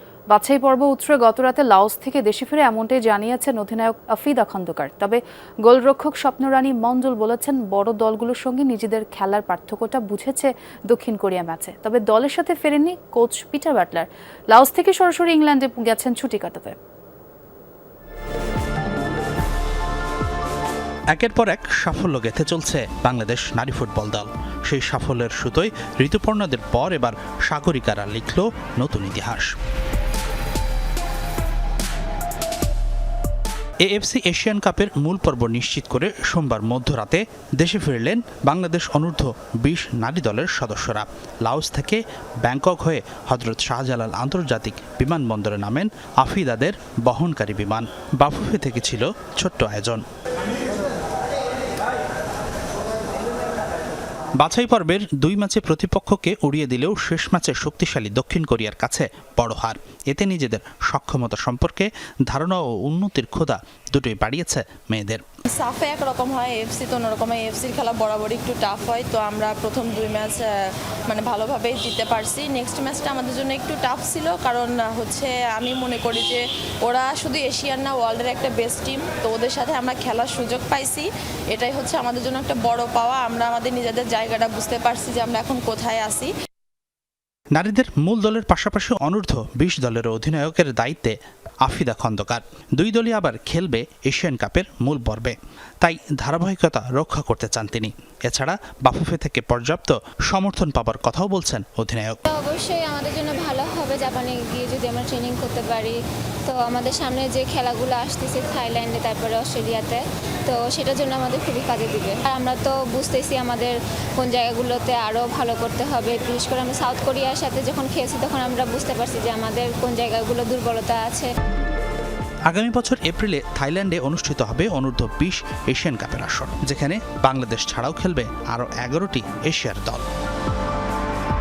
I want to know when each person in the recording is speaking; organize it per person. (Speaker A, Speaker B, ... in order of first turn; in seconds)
Speaker A: 0.3-16.8
Speaker B: 21.1-29.6, 33.8-50.0, 54.4-65.2, 87.5-102.2, 122.5-130.1
Speaker C: 65.5-86.3
Speaker D: 102.3-121.3